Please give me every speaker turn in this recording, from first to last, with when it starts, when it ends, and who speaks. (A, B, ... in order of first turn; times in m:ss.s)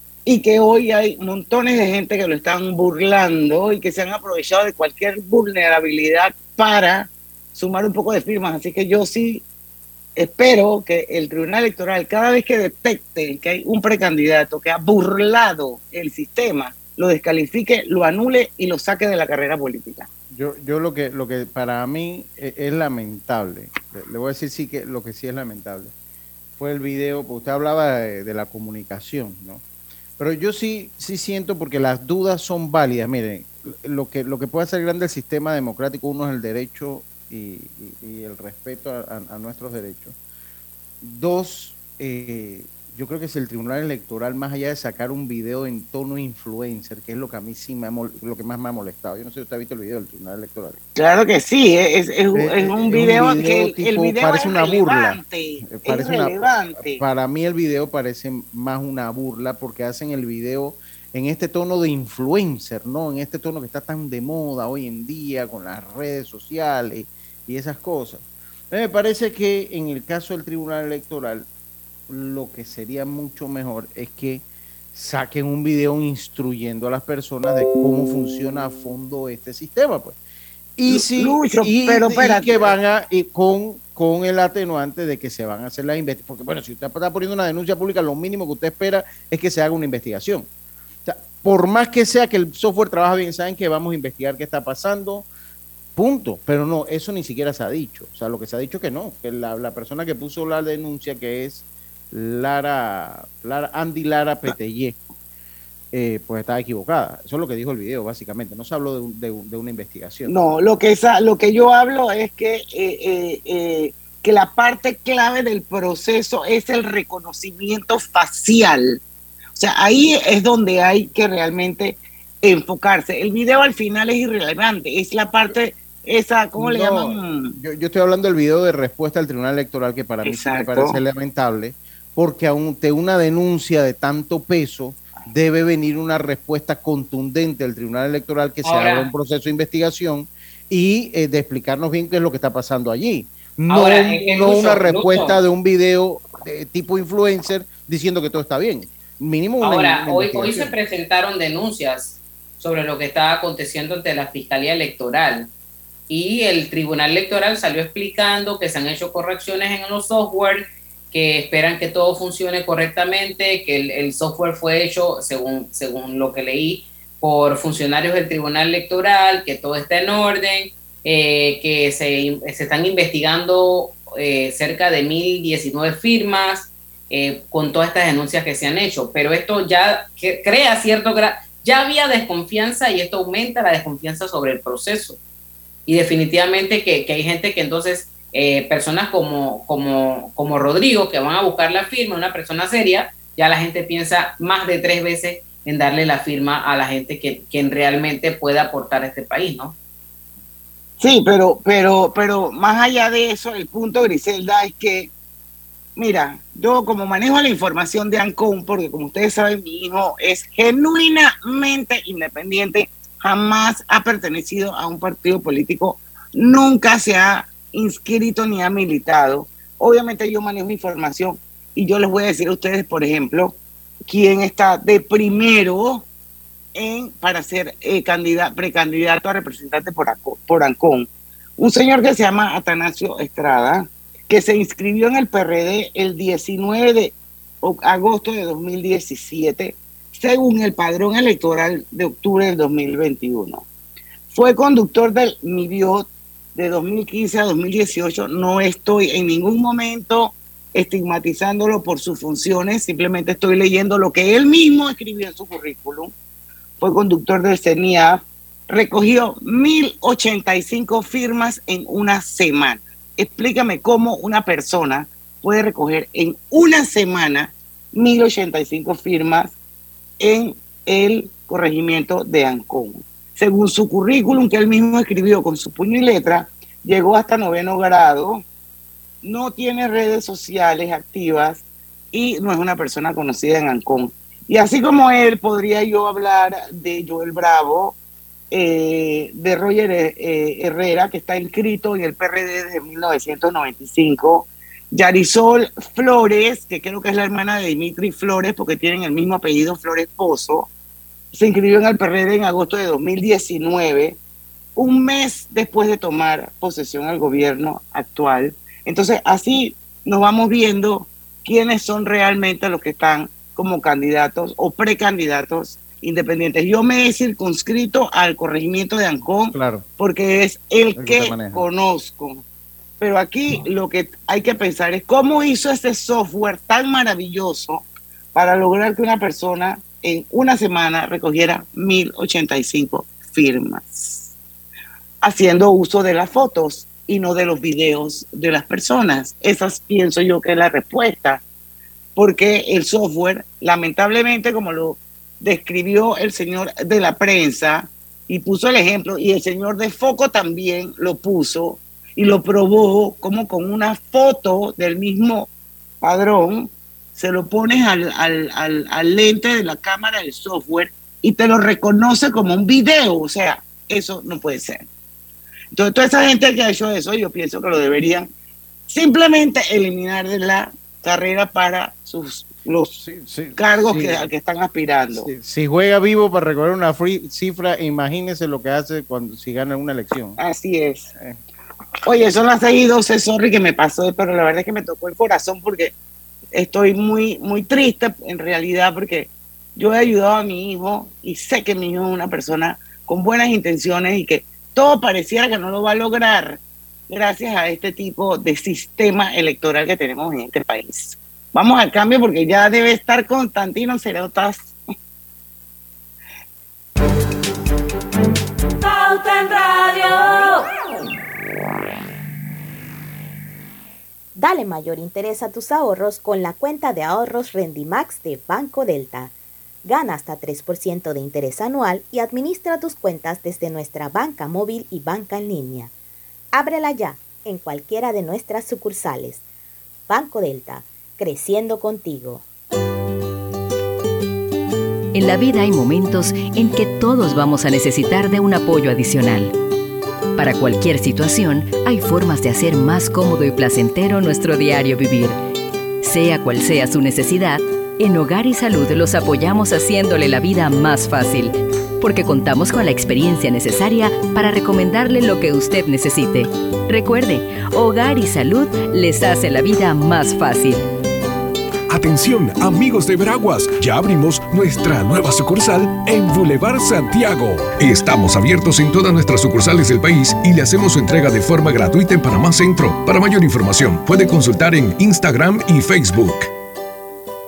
0:00.3-0:09.4 A
0:10.2-0:20.1 A
0:20.3-0:25.9 B
0:26.6-0:29.6 B
0:30.2-0:40.2 B
0:41.0-0:50.8 B
0:51.0-0:57.0 A
0:52.3-1:11.5 B
1:12.1-1:20.2 B
1:20.8-1:30.5 B
1:20.9-1:22.8 A
1:31.1-1:35.3 B
1:36.0-1:45.0 B
1:45.9-1:50.4 B
1:50.3-1:59.0 A
1:59.6-2:07.6 A
2:06.6-2:30.7 B
2:10.2-2:11.0 A
2:18.6-2:19.1 C
2:23.7-2:25.4 C
2:29.6-2:35.5 C
2:36.1-3:05.2 C
3:05.9-3:19.8 C
3:21.0-3:25.1 A
3:26.0-3:43.6 A
3:44.1-3:46.1 A
3:46.8-4:03.7 A
4:04.3-4:16.1 A
4:16.8-4:29.6 A
4:30.2-4:38.4 A
4:39.2-4:48.0 A
4:48.5-5:00.7 A
5:01.3-5:04.2 A
5:04.8-5:22.4 A
5:19.5-5:19.8 B
5:21.0-5:21.6 B
5:23.0-5:34.3 A
5:35.2-5:41.4 A
5:42.2-5:55.5 A
5:56.0-6:04.9 A
6:05.7-6:08.3 A
6:08.9-6:13.0 A
6:12.9-6:14.3 B
6:13.6-6:15.3 A
6:15.1-6:20.4 B
6:20.4-6:21.1 A
6:22.1-6:26.0 A
6:26.5-6:44.8 A
6:54.4-7:05.9 D
7:06.5-7:09.4 D
7:10.1-7:12.4 D
7:15.1-7:19.5 E
7:20.4-7:25.4 E
7:26.0-7:40.8 E
7:41.9-7:56.5 F